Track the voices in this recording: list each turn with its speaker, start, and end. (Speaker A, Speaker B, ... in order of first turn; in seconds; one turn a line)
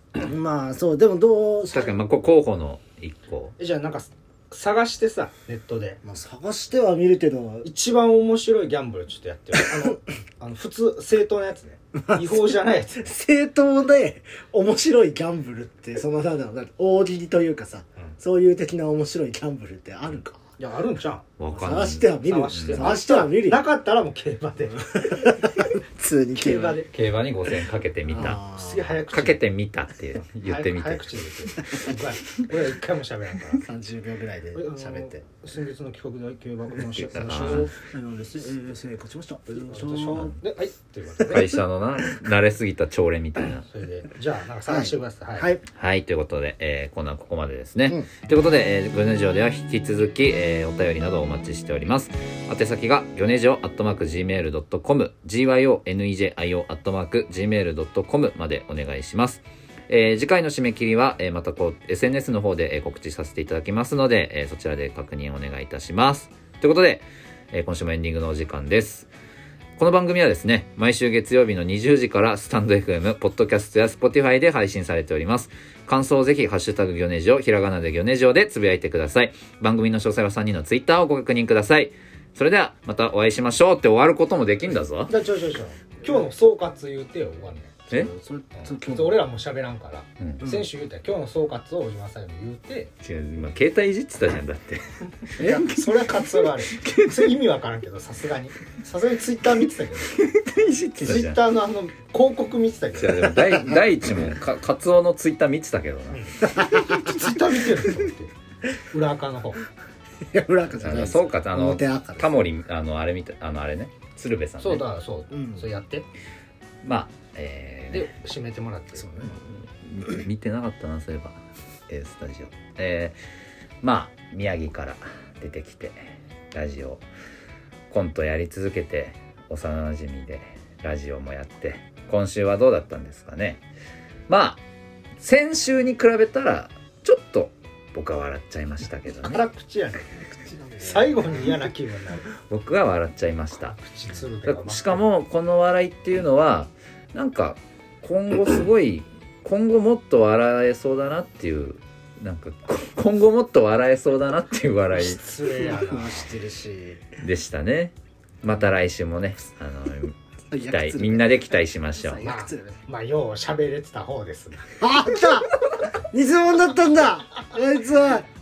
Speaker A: 0.2-2.0
Speaker B: 1.7-3.5
Speaker C: 3.6-6.0
Speaker A: 6.0-7.7
Speaker C: 7.6-13.1
Speaker A: 11.9-20.4
Speaker C: 20.6-21.2
Speaker B: 21.4-23.0
Speaker A: 21.5-23.6
Speaker C: 22.2-25.7
Speaker A: 24.8-26.8
Speaker C: 26.4-26.9
Speaker B: 26.9-28.4
Speaker A: 28.1-28.9
Speaker C: 28.3-29.4
Speaker B: 29.1-31.2
Speaker C: 30.4-33.6
Speaker A: 33.5-35.2
Speaker C: 34.5-37.8
Speaker B: 37.0-37.7
Speaker A: 37.5-40.3
Speaker C: 39.5-41.6
Speaker B: 41.2-43.6
Speaker C: 43.6-45.5
Speaker A: 44.7-45.6
Speaker B: 45.7-69.1
Speaker B: 69.8-85.1
Speaker C: 85.1-87.8
Speaker A: 87.9-89.2
Speaker C: 88.6-92.9
Speaker B: 93.0-96.1
Speaker C: 95.3-100.2
Speaker A: 95.4-95.8
Speaker B: 96.7-97.2
Speaker B: 100.1-101.4
Speaker C: 101.0-103.4
Speaker B: 103.0-106.2
Speaker A: 103.5-103.8
Speaker C: 106.1-109.6
Speaker A: 106.4-107.2
Speaker A: 110.2-112.3
Speaker B: 110.8-114.8
Speaker C: 114.6-116.1
Speaker A: 115.3-115.6
Speaker B: 116.8-118.1
Speaker C: 117.9-119.3
Speaker A: 119.0-119.4
Speaker B: 119.4-123.2
Speaker B: 123.8-127.0
Speaker B: 127.9-133.6
Speaker B: 134.3-134.6
Speaker B: 135.2-139.4
Speaker C: 139.2-140.3
Speaker A: 140.4-141.7
Speaker C: 140.8-142.3
Speaker B: 142.5-143.8
Speaker C: 143.6-145.0
Speaker B: 144.5-155.2
Speaker C: 154.9-156.3
Speaker A: 155.6-157.1
Speaker B: 157.2-160.1
Speaker A: 160.5-161.3
Speaker B: 160.7-162.3
Speaker A: 162.0-162.8
Speaker C: 162.2-164.7
Speaker A: 164.8-168.3